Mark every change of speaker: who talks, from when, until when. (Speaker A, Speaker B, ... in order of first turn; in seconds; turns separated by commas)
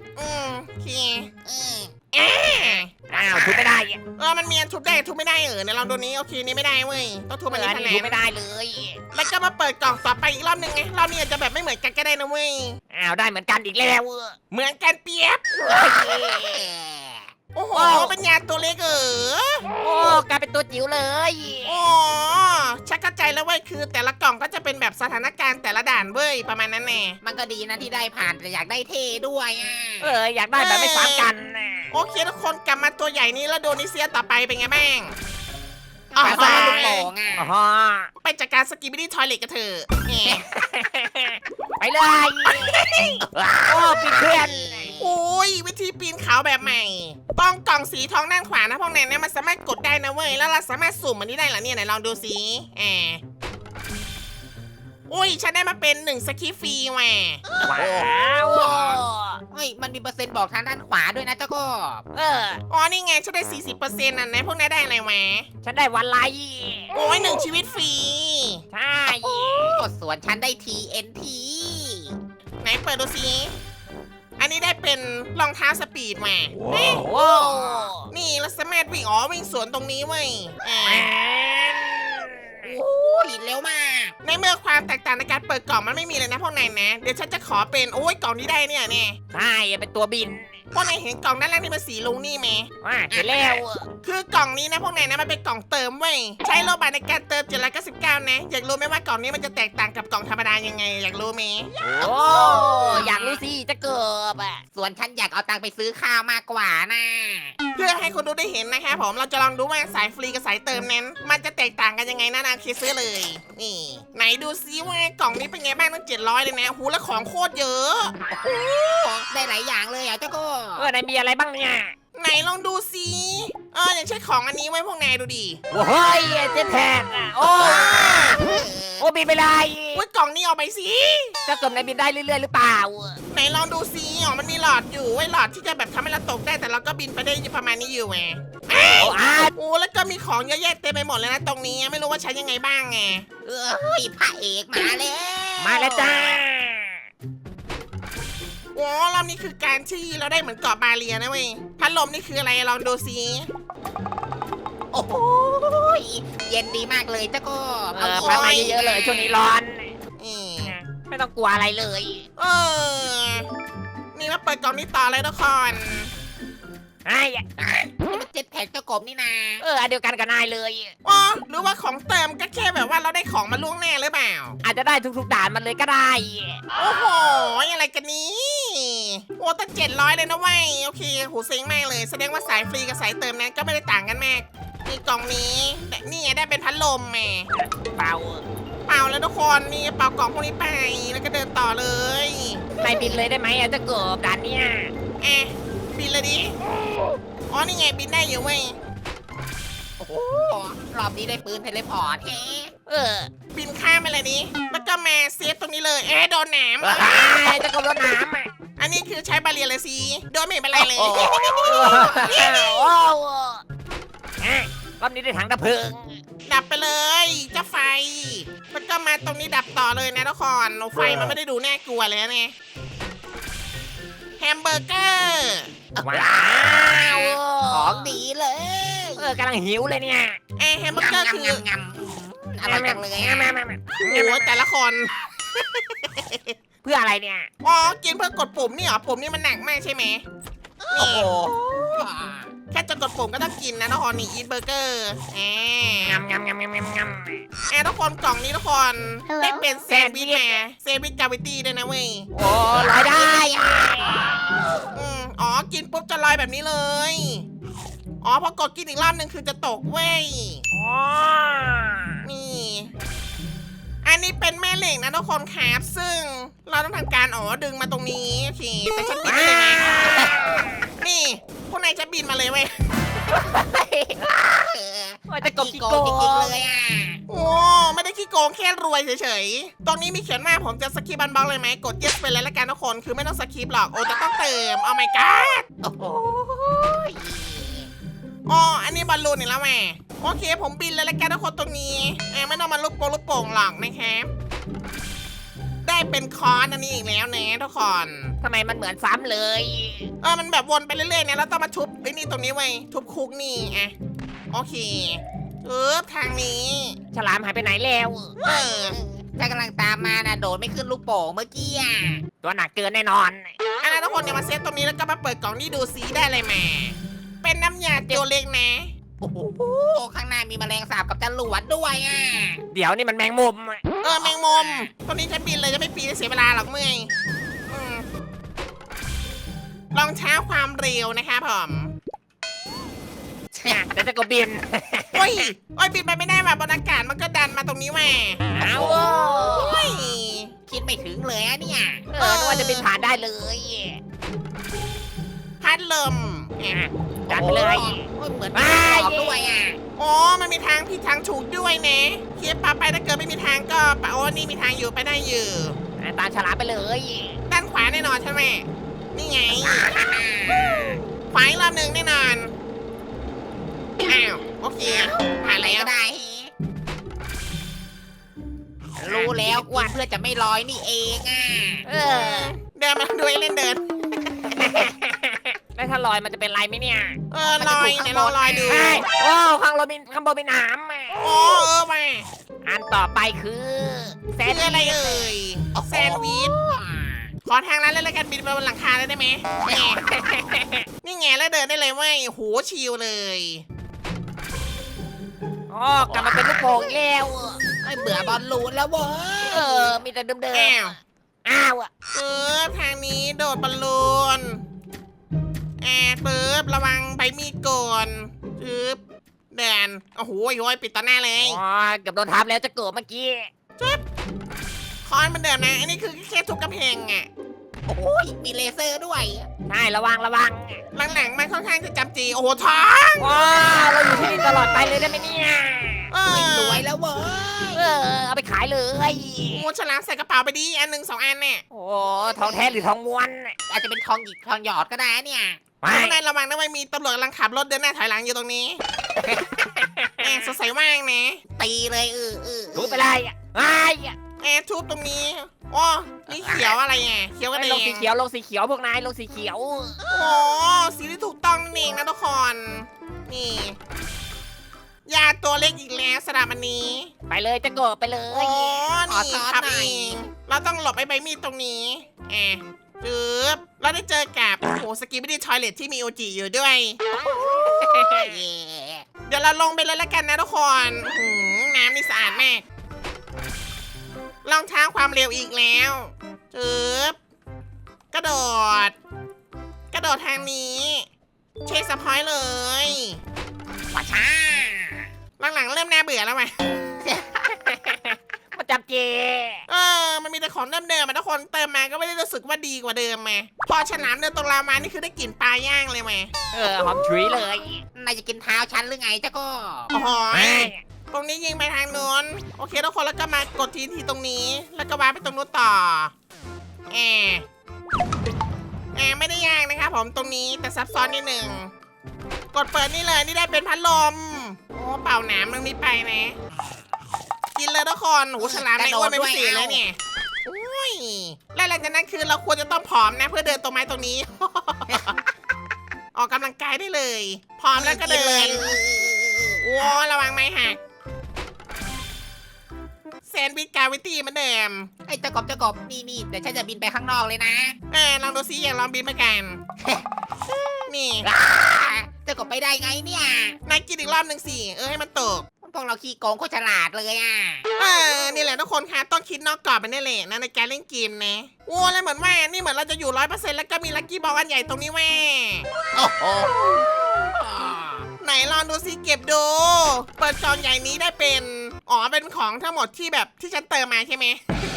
Speaker A: 0.1-1.3, Speaker B: 1.4-3.8, Speaker A: 2.1-2.9, Speaker C: 3.1-4.0, Speaker A: 4.2-8.2, Speaker C: 7.5-9.0, Speaker A: 9.1-12.8, Speaker C: 12.9-14.4, Speaker A: 14.5-15.5, Speaker C: 15.6-16.7, Speaker B: 15.7-17.3, Speaker A: 17.5-19.7, Speaker C: 17.7-18.1, Speaker C: 19.8-21.8, Speaker A: 21.6-27.2, Speaker B: 27.2-30.2, Speaker C: 30.0-31.9, Speaker A: 30.6-31.3, Speaker A: 31.9-35.1, Speaker B: 36.1-37.5, Speaker A: 36.2-37.1, Speaker C: 36.2-38.1, Speaker A: 38.2-40.4, Speaker C: 40.2-45.0, Speaker B: 43.2-45.1, Speaker A: 45.0-53.2, Speaker A: 55.1-57.4, Speaker B: 57.5-62.0, Speaker C: 57.6-59.4, Speaker C: 62.1-62.6, Speaker A: 62.7-65.5, Speaker C: 65.6-67.0, Speaker A: 66.9-68.6, Speaker C: 68.7-69.8, Speaker B: 69.0-72.2, Speaker A: 72.6-73.5, Speaker A: 74.4-77.1, Speaker C: 76.6-78.1, Speaker B: 77.1-77.9, Speaker A: 78.1-81.1, Speaker C: 80.8-82.8, Speaker B: 82.6-84.1, Speaker A: 84.2-89.2, Speaker C: 89.3-90.5, Speaker A: 90.7-101.7, Speaker C: 92.8-93.8, Speaker B: 101.8-103.4, Speaker C: 101.8-104.6, Speaker B: 104.7-107.5, Speaker A: 107.8-118.1, Speaker B: 118.3-120.9, Speaker C: 120.8-121.9, Speaker A: 122.1-125.6, Speaker C: 125.7-128.4, Speaker B: 127.5-129.1, Speaker C: 129.0-130.0, Speaker A: 129.9-131.4, Speaker C: 131.4-133.2, Speaker A: 133.3-143.2, Speaker C: 138.7-139.5, Speaker B: 143.4-146.4, Speaker C: 145.6-147.0, Speaker A: 148.7-153.5, Speaker B: 154.9-159.4, Speaker C: 157.9-159.9, Speaker A: 158.1-158.8, Speaker A: 160.2-160.7, Speaker C: 160.6-162.2, Speaker A: 162.4-163.5, Speaker A: 164.1-166.1, Speaker C: 167.0-167.4, Speaker B: 167.6-169.6, Speaker C: 169.6-170.9, Speaker A: 171.0-174.6, Speaker C: 174.6-176.6, Speaker A: 176.7-187.5, Speaker C: 187.6-188.4, Speaker A: 188.9-192.7, Speaker B: 192.8-193.3, Speaker C: 192.8-194.9, Speaker A: 195.2-196.6, Speaker A: 197.5-198.8, Speaker B: 200.0-202.7, Speaker C: 202.9-203.3, Speaker A: 203.5-207.4, Speaker C: 206.8-208.5, Speaker A: 208.8-212.8, Speaker B: 210.8-212.6, Speaker C: 211.0-213.6, Speaker C: 214.4-216.2, Speaker A: 216.5-222.5, Speaker A: 224.4-225.7, Speaker B: 225.9-229.4, Speaker C: 226.0-228.2, Speaker C: 229.2-230.4, Speaker A: 230.6-231.6, Speaker B: 230.9-233.6, Speaker C: 232.6-234.6, Speaker A: 234.0-235.1, Speaker C: 236.8-237.5, Speaker A: 237.6-240.2, Speaker B: 240.8-242.5, Speaker A: 240.9-241.3, Speaker A: 242.7-246.2, Speaker C: 246.1-247.4, Speaker A: 247.7-252.3, Speaker C: 249.9-250.6, Speaker C: 252.3-254.3, Speaker B: 252.7-254.8, Speaker A: 254.9-257.4, Speaker A: 258.2-260.6, Speaker C: 260.7-262.2, Speaker A: 262.2-262.9, Speaker A: 264.0-270.3, Speaker C: 269.2-270.8, Speaker A: 271.0-272.7, Speaker C: 273.3-274.3, Speaker B: 274.2-277.2, Speaker C: 275.3-276.6, Speaker A: 277.3-285.6, Speaker B: 285.8-287.9, Speaker A: 288.4-294.3, Speaker A: 295.8-298.4, Speaker C: 298.4-300.1, Speaker A: 300.2-303.9, Speaker A: 304.5-307.0, Speaker C: 307.1-308.4, Speaker A: 308.4-308.9, Speaker B: 308.4-312.2, Speaker C: 312.4-313.5, Speaker A: 313.8-318.9, Speaker B: 319.2-322.6, Speaker C: 322.7-323.8, Speaker A: 324.0-327.1, Speaker B: 324.0-324.9, Speaker A: 327.7-328.0, Speaker A: 329.9-331.9, Speaker B: 333.5-333.9, Speaker C: 333.6-335.5, Speaker A: 335.1-338.4, Speaker C: 338.5-339.9, Speaker A: 339.4-340.5, Speaker B: 340.7-342.1, Speaker C: 342.1-344.0, Speaker A: 342.2-342.9, Speaker A: 345.6-346.8, Speaker C: 346.6-349.6, Speaker B: 347.3-349.8, Speaker A: 350.0-355.8, Speaker C: 356.0-357.4, Speaker A: 357.5-359.9, Speaker B: 359.6-361.0, Speaker A: 361.3-362.5, Speaker A: 364.0-365.9, Speaker B: 364.8-366.5, Speaker C: 369.0-370.0, Speaker B: 369.0-371.9, Speaker C: 371.8-372.6, Speaker A: 372.1-374.8, Speaker C: 374.5-377.2, Speaker A: 377.3-379.0, Speaker B: 377.6-379.0, Speaker C: 378.7-381.6, Speaker A: 381.2-382.3, Speaker C: 382.6-385.3, Speaker A: 384.4-386.5, Speaker B: 385.7-387.3, Speaker A: 387.4-390.0, Speaker B: 389.6-390.0, Speaker C: 390.1-390.8, Speaker A: 391.0-393.6, Speaker C: 395.7-397.6, Speaker B: 396.1-396.9, Speaker B: 397.8-399.9, Speaker C: 399.5-400.9, Speaker A: 400.5-400.9, Speaker C: 401.4-401.9, Speaker A: 402.1-404.6, Speaker A: 405.8-409.0, Speaker A: 409.5-411.6, Speaker C: 411.4-413.5, Speaker A: 415.0-417.3, Speaker B: 417.9-419.5, Speaker C: 419.7-420.8, Speaker A: 420.9-423.5, Speaker C: 423.2-426.1, Speaker A: 426.1-426.9, Speaker B: 426.3-428.1, Speaker C: 427.7-429.7, Speaker A: 429.5-431.6, Speaker C: 431.7-433.5, Speaker B: 432.4-432.8, Speaker B: 433.7-435.6, Speaker C: 435.8-436.2, Speaker A: 435.9-438.8, Speaker C: 439.2-440.5, Speaker A: 440.2-441.4, Speaker B: 441.6-443.1, Speaker C: 442.7-444.2, Speaker A: 444.4-448.1, Speaker B: 446.3-446.8, Speaker C: 447.5-450.0, Speaker A: 450.1-453.8, Speaker A: 455.1-457.1, Speaker C: 457.3-458.9, Speaker A: 458.3-467.0, Speaker B: 459.1-460.2, Speaker A: 467.7-468.3, Speaker B: 467.9-469.1, Speaker A: 469.3-472.6, Speaker A: 474.4-477.2, Speaker A: 478.1-478.9, Speaker A: 479.9-481.1, Speaker A: 481.6-483.2, Speaker B: 483.9-485.1, Speaker A: 485.4-486.5, Speaker B: 487.0-487.5, Speaker C: 487.5-489.6, Speaker A: 489.7-496.3, Speaker C: 496.5-497.8, Speaker B: 497.0-497.4, Speaker B: 497.9-499.9, Speaker A: 499.9-506.1, Speaker C: 500.3-500.8, Speaker A: 506.9-507.4, Speaker A: 508.9-511.7, Speaker A: 512.5-516.4, Speaker A: 517.5-525.1, Speaker B: 518.4-519.8, Speaker A: 526.1-528.8, Speaker B: 527.7-529.9, Speaker A: 529.6-530.8, Speaker A: 533.3-534.9, Speaker B: 535.1-537.8, Speaker A: 537.9-539.6, Speaker B: 539.8-540.7, Speaker A: 540.9-541.3, Speaker B: 541.2-543.6, Speaker A: 543.6-545.5, Speaker B: 545.6-547.7, Speaker A: 547.8-555.7, Speaker B: 555.9-558.0, Speaker A: 558.2-564.4